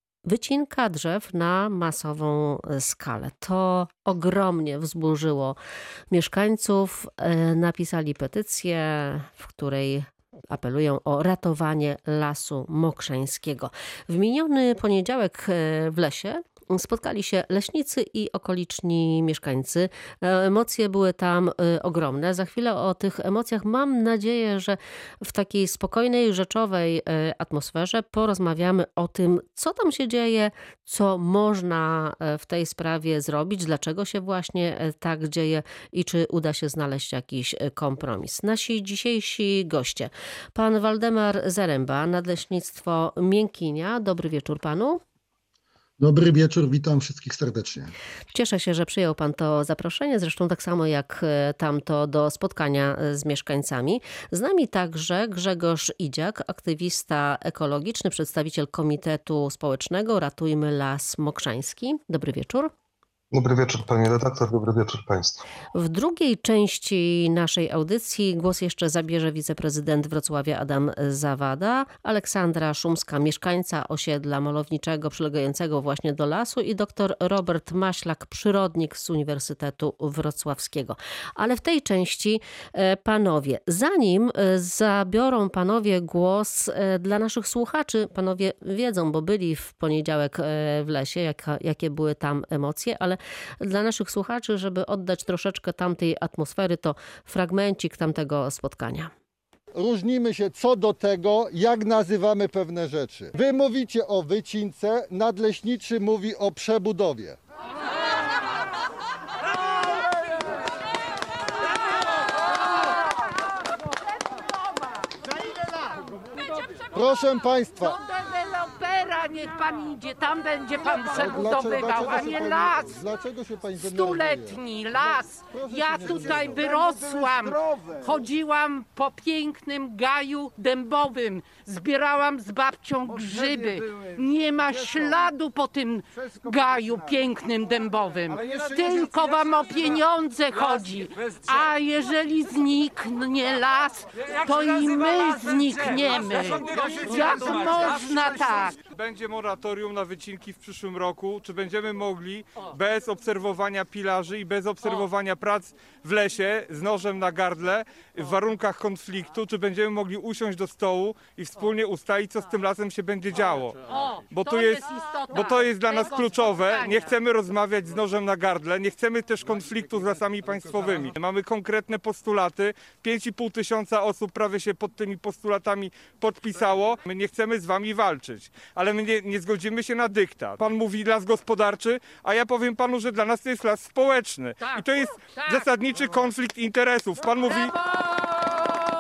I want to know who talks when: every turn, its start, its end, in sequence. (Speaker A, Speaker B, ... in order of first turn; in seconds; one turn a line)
Speaker A: 0.2-5.6
Speaker A: 6.1-45.0
Speaker B: 46.0-48.0
Speaker A: 48.3-62.7
Speaker C: 63.3-65.5
Speaker A: 65.7-99.1
Speaker D: 99.7-107.4
Speaker E: 114.3-114.8
Speaker D: 116.9-118.0
Speaker E: 117.8-123.0
Speaker D: 121.1-124.6
Speaker E: 123.8-148.8
Speaker D: 125.5-126.7
Speaker F: 148.9-187.8
Speaker E: 163.9-167.2
Speaker E: 184.6-185.7
Speaker E: 187.6-188.7